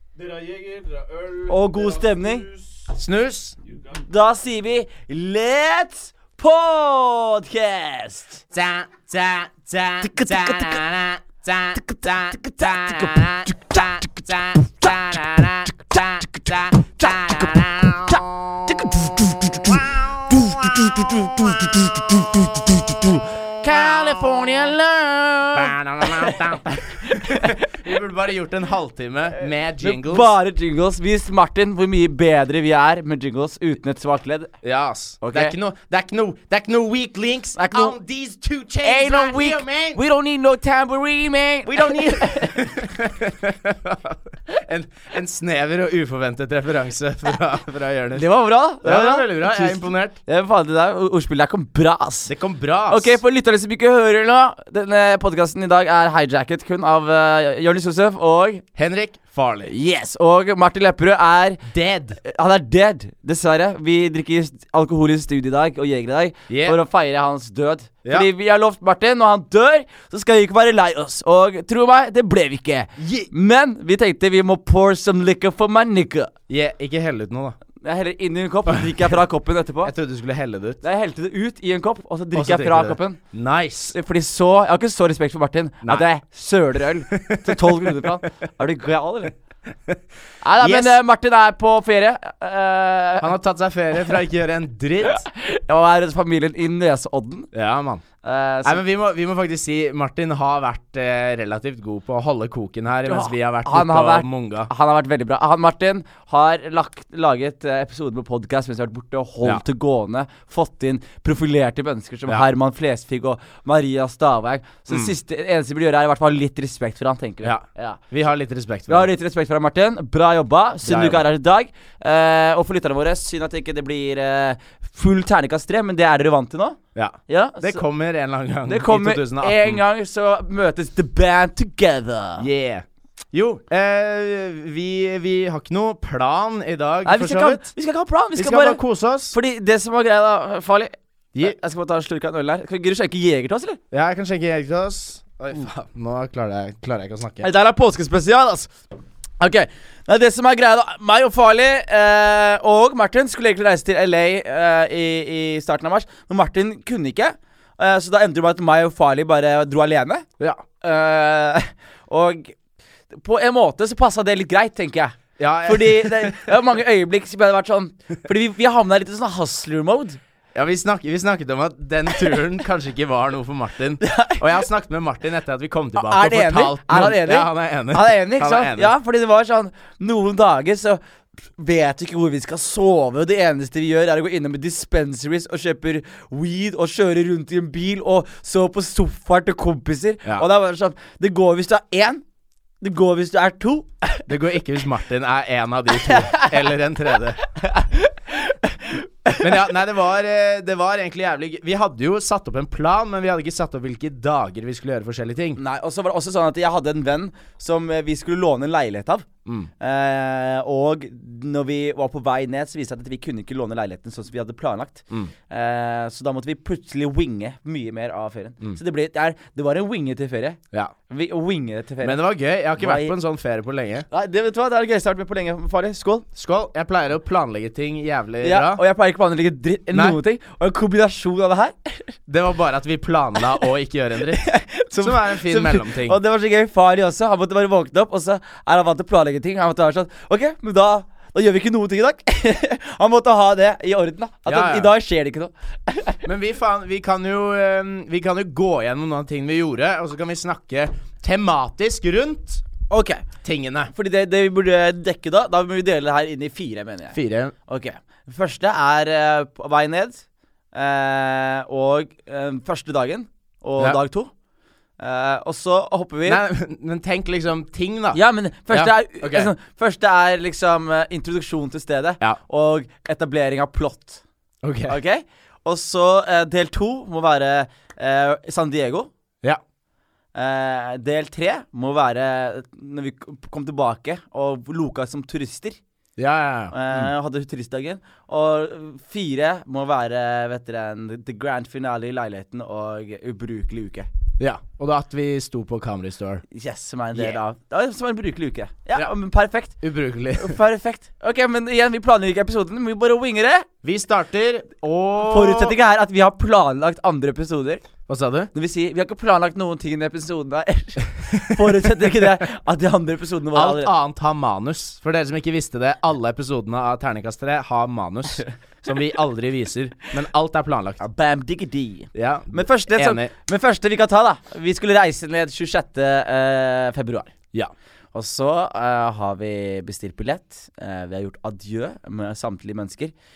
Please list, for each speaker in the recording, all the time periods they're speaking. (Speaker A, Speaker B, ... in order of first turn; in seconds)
Speaker A: 0.2-2.9
Speaker B: 1.5-2.5, 3.9-8.4, 10.0-10.8, 11.8-14.0, 15.9-27.7, 29.8-34.5, 35.2-35.5, 37.6-38.0, 38.8-42.8, 48.1-52.3, 52.9-58.6, 59.7-61.6, 62.2-76.3, 77.8-79.9, 80.8-83.2, 83.9-89.3, 90.4-93.3, 95.0-97.5, 98.2-98.8, 103.1-118.0, 118.9-127.8, 128.7-132.5, 137.1-138.8, 139.3-143.8, 147.4-148.7, 149.4-160.3, 160.8-162.6, 163.1-170.2, 174.0-174.4, 176.0-181.0, 181.6-192.2, 192.8-194.3, 196.1-196.5, 197.6-199.4, 205.6-209.3, 209.8-220.6, 221.1-222.2, 222.8-223.1, 224.1-226.3, 228.4-232.1, 234.4-246.2, 252.9-253.3, 253.9-264.3, 265.0-266.4, 268.1-274.2, 274.9-279.1, 280.4-285.8, 286.7-294.1, 296.5-299.8, 300.3-303.7, 305.2-307.8, 308.5-313.9, 321.0-327.3, 328.1-333.1
Speaker C: 2.9-3.6, 8.5-18.9, 19.5-21.8, 23.7-24.4, 25.5-30.3, 34.6-40.0, 41.7-48.3, 48.8-50.2, 52.3-53.2, 58.8-59.7, 61.7-62.2, 66.5-66.8, 73.0-73.3, 76.5-77.6, 79.8-80.8, 82.3-84.0, 87.1-88.1, 90.6-91.0, 93.2-95.2, 97.5-98.0, 98.6-104.7, 117.4-119.1, 120.9-121.2, 127.0-129.8, 132.4-137.7, 138.4-139.3, 143.9-147.5, 165.4-166.5, 170.6-178.9, 194.3-197.4, 199.3-205.6, 222.0-224.1, 226.3-228.8, 232.3-236.2, 244.5-244.9, 246.2-252.6, 253.4-253.9, 257.1-257.5, 266.3-268.2, 268.7-269.5, 274.6-275.0, 286.2-287.1, 294.4-296.4, 299.8-300.6, 303.8-305.8, 308.1-308.5, 311.3-311.9, 313.6-321.0, 322.1-323.3